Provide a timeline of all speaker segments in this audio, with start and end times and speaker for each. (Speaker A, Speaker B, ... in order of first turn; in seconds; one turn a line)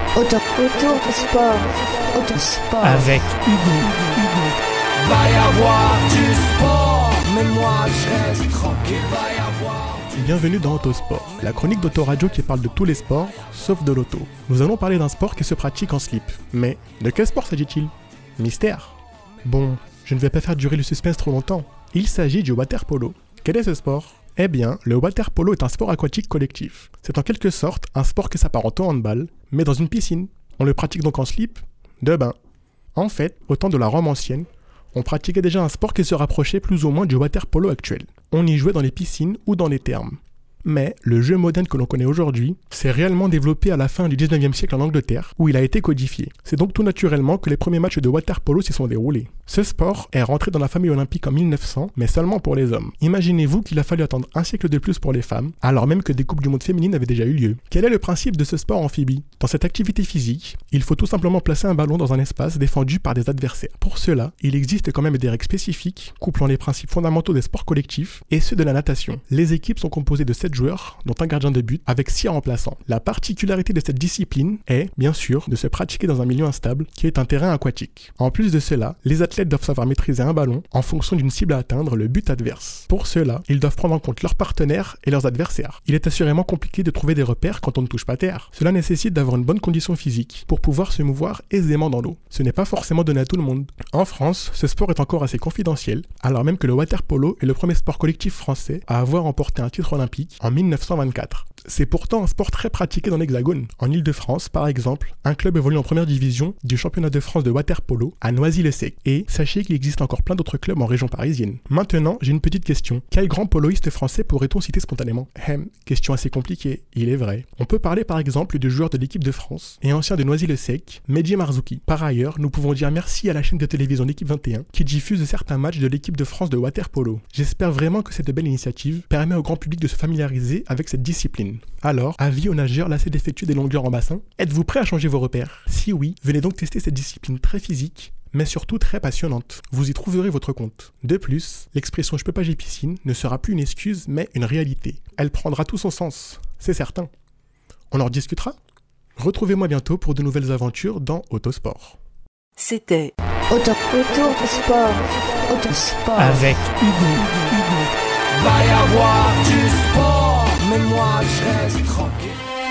Speaker A: 0.2-0.5
Speaker B: 0.5-2.8
Speaker A: 2.2-2.5
Speaker C: 2.8-3.8
Speaker A: 5.0-9.8
Speaker D: 10.1-32.4
Speaker D: 33.0-147.1
Speaker D: 147.9-148.6
Speaker D: 149.2-152.0
Speaker A: 152.6-153.8
Speaker B: 153.9-155.6
Speaker A: 155.5-156.3
Speaker C: 156.2-157.2
Speaker A: 157.1-162.3